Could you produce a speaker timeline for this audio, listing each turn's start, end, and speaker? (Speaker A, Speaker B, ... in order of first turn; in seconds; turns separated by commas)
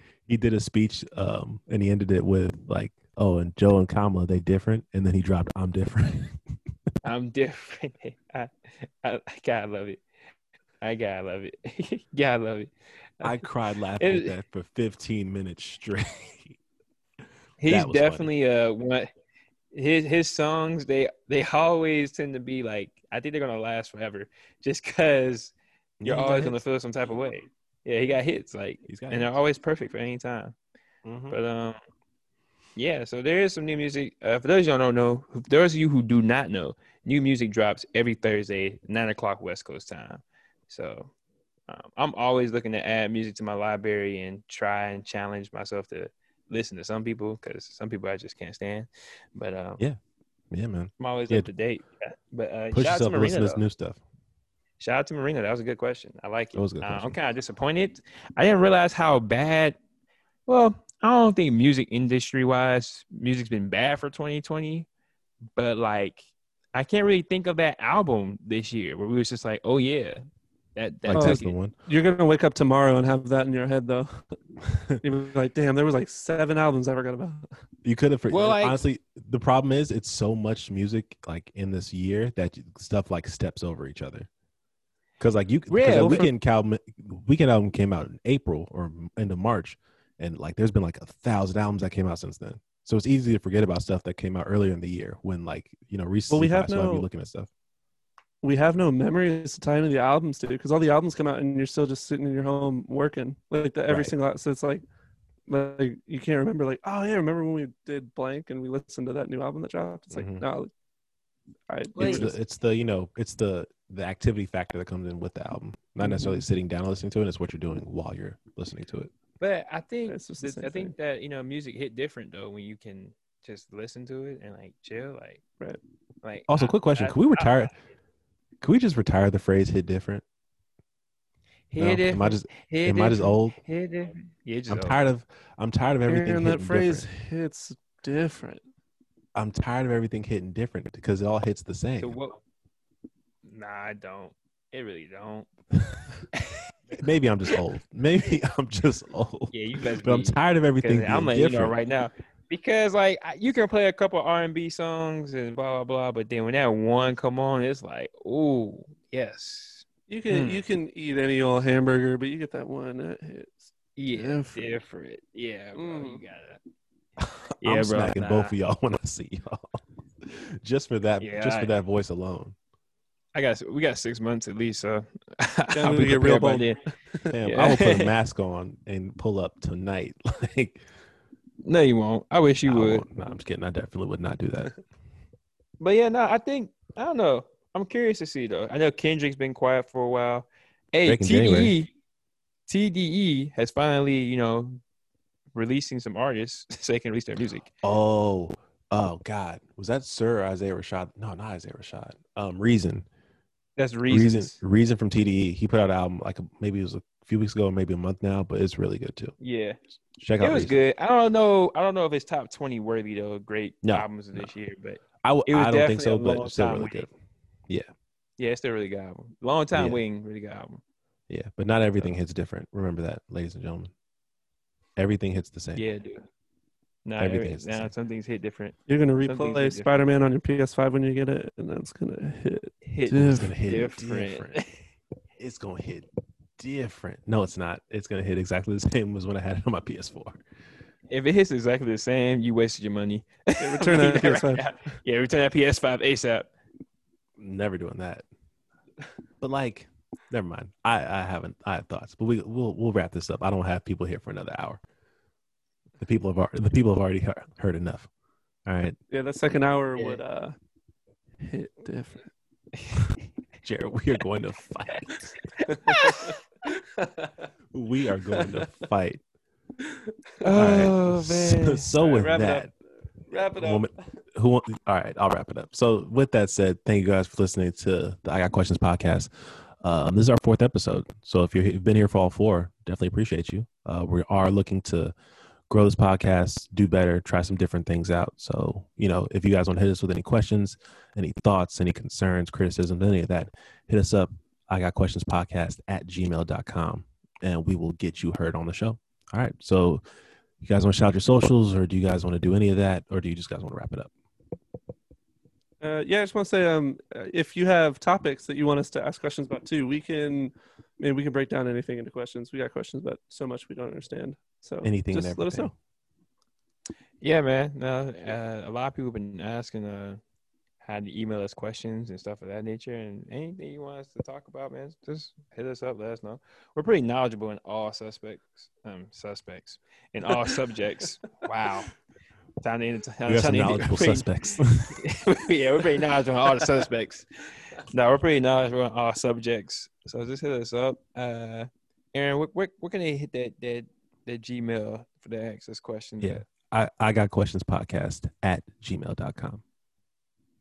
Speaker A: 0.3-6.4, Speaker B: 7.0-10.0, Speaker B: 10.8-13.4, Speaker A: 13.2-16.6, Speaker B: 14.0-14.3, Speaker B: 17.6-19.1, Speaker A: 17.7-18.3, Speaker B: 19.7-25.5, Speaker A: 26.0-26.6, Speaker B: 26.1-30.6, Speaker A: 28.9-29.3, Speaker A: 31.1-31.4, Speaker B: 31.3-31.8, Speaker B: 32.8-41.1, Speaker B: 41.7-49.8, Speaker A: 50.5-51.5, Speaker B: 51.0-53.6, Speaker A: 52.7-54.0, Speaker B: 54.8-59.8, Speaker A: 56.5-57.1, Speaker B: 60.5-64.9, Speaker B: 65.6-70.2, Speaker B: 70.8-71.5, Speaker A: 71.0-71.7, Speaker C: 71.1-74.4, Speaker C: 75.0-77.5, Speaker A: 77.8-84.3, Speaker B: 78.3-78.8, Speaker A: 85.2-97.5, Speaker B: 85.7-86.3, Speaker C: 85.9-86.3, Speaker C: 96.3-97.1, Speaker C: 98.4-104.8, Speaker A: 103.9-104.1, Speaker C: 105.5-110.7, Speaker A: 110.1-110.4, Speaker C: 111.7-112.3, Speaker B: 112.0-112.3, Speaker A: 112.0-119.1, Speaker C: 116.0-116.4, Speaker B: 119.4-125.4, Speaker C: 120.1-120.9, Speaker B: 126.2-127.7, Speaker A: 126.5-127.7, Speaker A: 128.6-130.2, Speaker B: 131.7-135.0, Speaker A: 131.8-133.6, Speaker A: 134.7-137.1, Speaker C: 136.1-138.6, Speaker A: 139.4-142.2, Speaker B: 142.0-142.4, Speaker B: 143.4-145.5, Speaker B: 146.3-147.0, Speaker A: 147.0-151.8, Speaker B: 149.5-160.6, Speaker C: 160.1-164.7, Speaker B: 164.0-166.6, Speaker C: 165.8-166.2, Speaker A: 167.2-172.6, Speaker B: 167.6-168.5, Speaker B: 171.2-171.7, Speaker B: 173.3-176.8, Speaker C: 175.7-177.3, Speaker A: 177.3-180.8, Speaker B: 177.4-178.1, Speaker B: 181.6-183.1, Speaker A: 182.7-184.7, Speaker B: 185.8-191.9, Speaker A: 191.1-191.8, Speaker B: 192.7-194.8, Speaker B: 195.6-197.7, Speaker A: 197.8-203.1, Speaker B: 203.8-204.6, Speaker A: 204.1-209.3, Speaker B: 209.4-209.8, Speaker A: 210.2-210.8, Speaker B: 210.4-217.1, Speaker A: 213.8-214.5, Speaker A: 215.2-217.1, Speaker B: 218.4-220.8, Speaker A: 219.7-220.0, Speaker A: 221.3-223.9, Speaker A: 225.0-225.8, Speaker B: 225.8-226.2, Speaker B: 227.1-230.0, Speaker A: 227.2-227.9, Speaker C: 228.9-233.6, Speaker B: 232.8-234.8, Speaker A: 233.2-234.6, Speaker A: 235.4-240.4, Speaker B: 241.1-246.5, Speaker C: 243.6-244.7, Speaker A: 247.4-248.3, Speaker A: 249.4-254.8, Speaker A: 256.0-258.1, Speaker A: 258.7-259.0, Speaker C: 259.1-260.6, Speaker C: 261.4-262.3, Speaker B: 262.8-263.0, Speaker A: 263.6-265.3, Speaker C: 265.7-267.5, Speaker B: 265.8-266.4, Speaker A: 267.7-269.2, Speaker C: 268.4-268.7, Speaker B: 270.4-272.0, Speaker A: 270.6-272.7, Speaker C: 272.0-274.0, Speaker A: 273.6-285.1, Speaker A: 285.7-300.0, Speaker A: 300.6-304.1, Speaker C: 305.8-315.7, Speaker A: 314.8-315.7, Speaker B: 317.2-320.2, Speaker B: 320.8-331.9, Speaker B: 332.6-346.4, Speaker A: 333.3-335.0, Speaker A: 346.2-349.6